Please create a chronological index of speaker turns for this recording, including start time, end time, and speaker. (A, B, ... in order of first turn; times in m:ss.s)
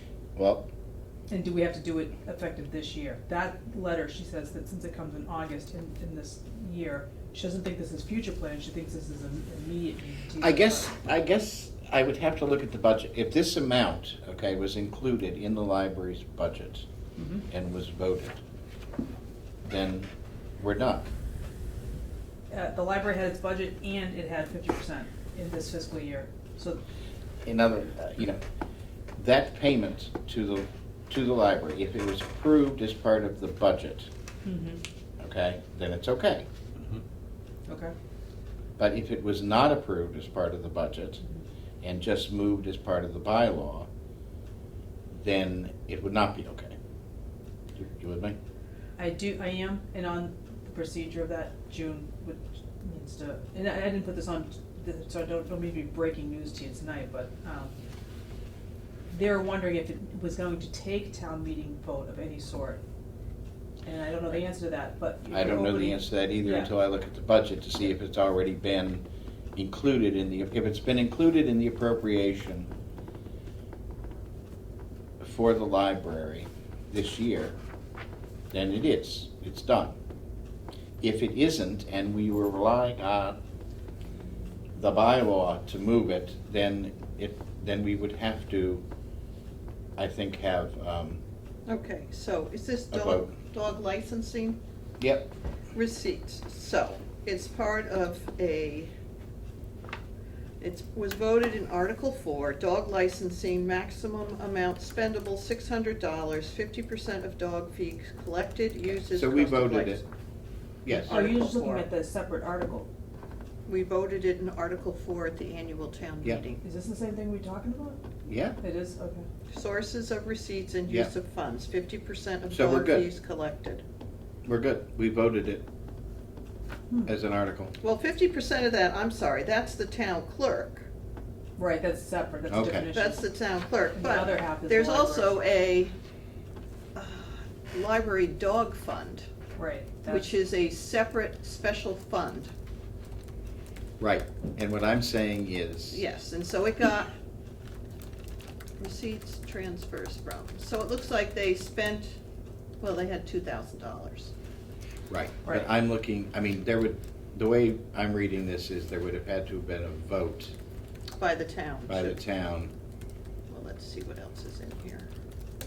0:00.4-0:00.7 A
0:01.3-0:10.9 B
0:10.4-0:16.8 A
0:17.2-0:17.4 B
0:17.5-0:18.4 A
0:19.6-0:21.1 A
0:22.5-0:26.8 B
0:27.4-0:28.4 A
0:29.2-0:34.1 A
0:34.4-0:34.8 B
0:35.2-0:36.5 A
0:37.7-0:37.9 B
0:38.8-0:41.2 A
0:41.8-0:43.9 A
0:45.1-0:46.7 A
0:47.7-0:48.4 A
0:49.0-0:57.7 B
0:59.1-1:02.8 B
1:03.8-1:06.7 B
1:05.3-1:12.7 A
1:15.2-1:17.6 A
1:18.5-1:19.9 A
1:21.0-1:23.4 A
1:24.8-1:28.8 A
1:30.0-1:31.2 A
1:31.6-1:34.6 C
1:32.9-1:33.3 A
1:35.0-1:35.3 A
1:35.7-1:38.9 C
1:40.6-1:50.0 C
1:48.9-1:50.0 A
1:50.8-1:51.2 A
1:50.9-1:51.9 C
1:51.1-1:52.9 B
1:53.7-1:56.6 C
1:56.6-1:58.0 B
1:58.2-1:58.6 A
1:58.6-1:59.3 B
1:59.5-2:03.8 C
2:02.5-2:03.0 A
2:04.4-2:05.6 A
2:07.0-2:07.7 A
2:07.8-2:10.9 C
2:11.6-2:13.2 B
2:12.5-2:12.9 A
2:12.9-2:15.9 C
2:14.0-2:15.3 B
2:16.9-2:19.2 C
2:19.6-2:20.3 B
2:20.1-2:22.5 C
2:24.0-2:26.0 A
2:25.9-2:27.1 C
2:28.8-2:32.2 C
2:32.8-2:34.3 C
2:35.1-2:40.5 A
2:41.2-2:42.1 C
2:41.9-2:42.7 A
2:43.5-2:45.1 C